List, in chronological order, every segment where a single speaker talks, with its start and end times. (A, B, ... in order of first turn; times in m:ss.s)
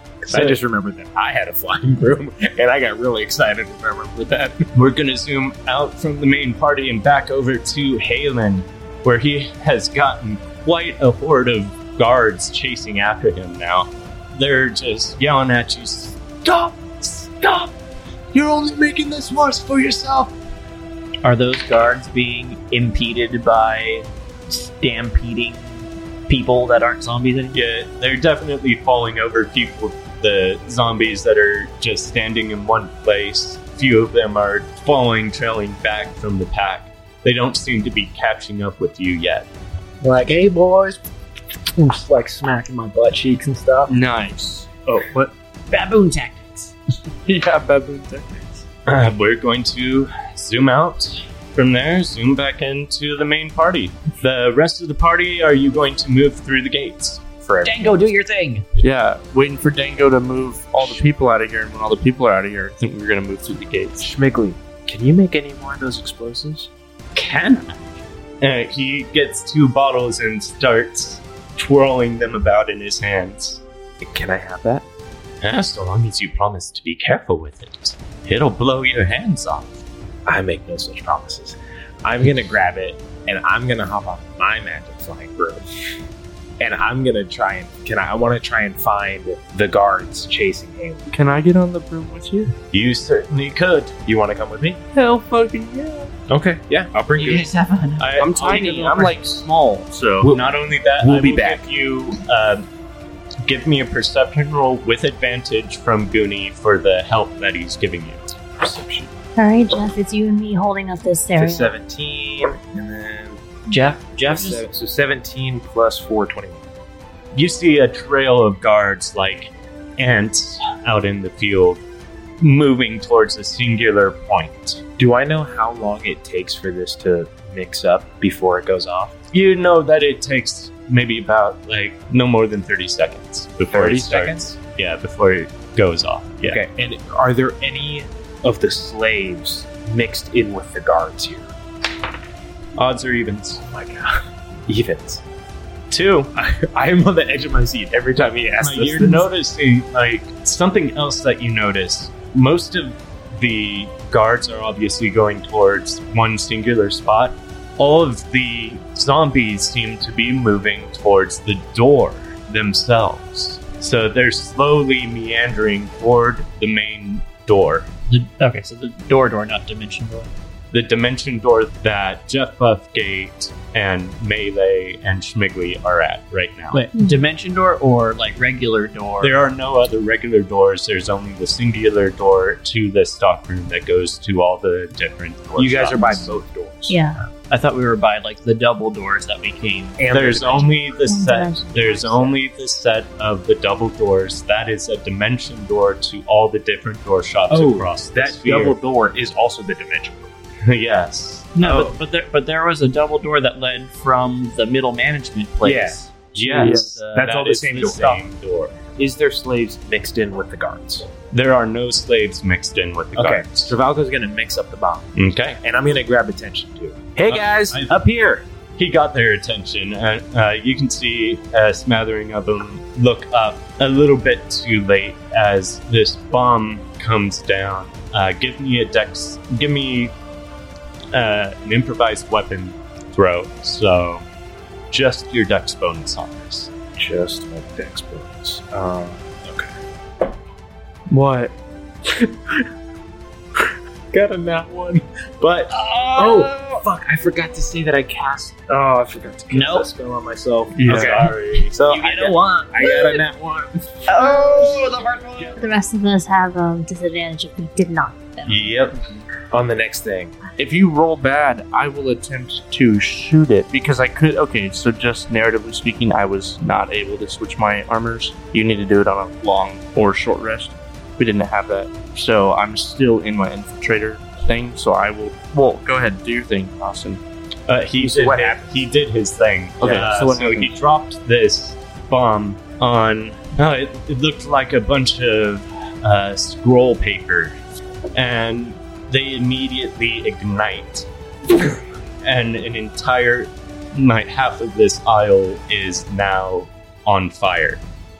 0:00.2-0:04.6 A
0:00.3-0:00.6 B
0:04.7-0:17.7 C
0:18.3-0:20.3 C
0:21.2-0:27.6 D
0:27.5-0:39.5 C
0:40.0-0:41.0 E
0:41.8-0:43.9 E
0:43.9-0:45.2 B
0:45.7-0:46.7 D
0:47.2-0:48.6 B
0:48.8-0:57.2 C
0:57.4-0:58.1 A
0:57.6-0:58.6 D
0:58.8-1:04.1 B
1:04.0-1:06.7 A
1:07.1-1:07.8 C
1:08.4-1:13.6 C
1:14.0-1:14.8 A
1:15.4-1:19.8 C
1:20.2-1:25.7 A
1:26.6-1:31.1 A
1:31.1-1:32.5 B
1:32.7-1:34.0 C
1:34.0-1:34.8 A
1:34.9-1:36.1 B
1:36.3-1:37.4 A
1:37.1-1:39.1 D
1:38.0-1:39.1 C
1:38.2-1:40.3 B
1:40.2-1:41.6 A
1:40.2-1:42.7 C
1:43.4-1:48.3 C
1:48.6-1:49.1 A
1:49.4-1:51.7 F
1:51.3-1:53.4 A
1:53.7-1:54.6 D
1:54.3-1:56.6 A
1:57.3-2:01.8 C
2:02.4-2:04.8 C
2:05.0-2:09.2 A
2:09.3-2:16.6 C
2:13.7-2:14.4 A
2:16.4-2:21.5 A
2:22.8-2:23.6 C
2:23.6-2:25.2 A
2:25.9-2:26.3 C
2:26.3-2:29.3 A
2:28.6-2:47.9 C
2:48.1-2:50.3 D
2:50.7-2:56.8 C
2:56.7-2:59.3 D
2:59.2-3:06.3 C
3:05.5-3:07.0 A
3:05.9-3:06.3 F
3:06.9-3:07.2 F
3:07.5-3:10.0 D
3:10.0-3:11.2 A
3:10.1-3:18.8 C
3:11.1-3:12.3 F
3:17.5-3:20.4 A
3:20.6-3:21.5 C
3:21.5-3:27.2 D
3:21.6-3:21.9 A
3:25.6-3:28.2 A
3:26.3-3:28.8 C
3:26.5-3:27.0 B
3:28.9-3:31.1 A
3:31.3-3:33.7 C
3:33.1-3:35.1 A
3:35.2-3:35.6 C
3:35.6-3:38.4 A
3:37.2-3:38.0 C
3:38.8-3:50.1 C
3:51.1-3:54.2 C
3:54.9-3:56.7 C
3:57.0-3:59.7 A
4:01.1-4:01.5 B
4:04.1-4:14.1 A
4:04.5-4:04.8 E
4:09.5-4:09.9 D
4:10.7-4:11.2 B
4:10.8-4:11.7 C
4:11.8-4:13.2 D
4:14.1-4:15.5 D
4:14.1-4:14.9 F
4:15.4-4:18.7 F
4:18.4-4:19.0 C
4:19.5-4:20.3 A
4:20.6-4:37.2 B
4:37.7-4:47.5 C
4:38.0-4:38.8 A
4:39.8-4:40.7 B
4:39.8-4:40.0 A
4:48.1-4:51.7 C
4:52.2-4:57.8 C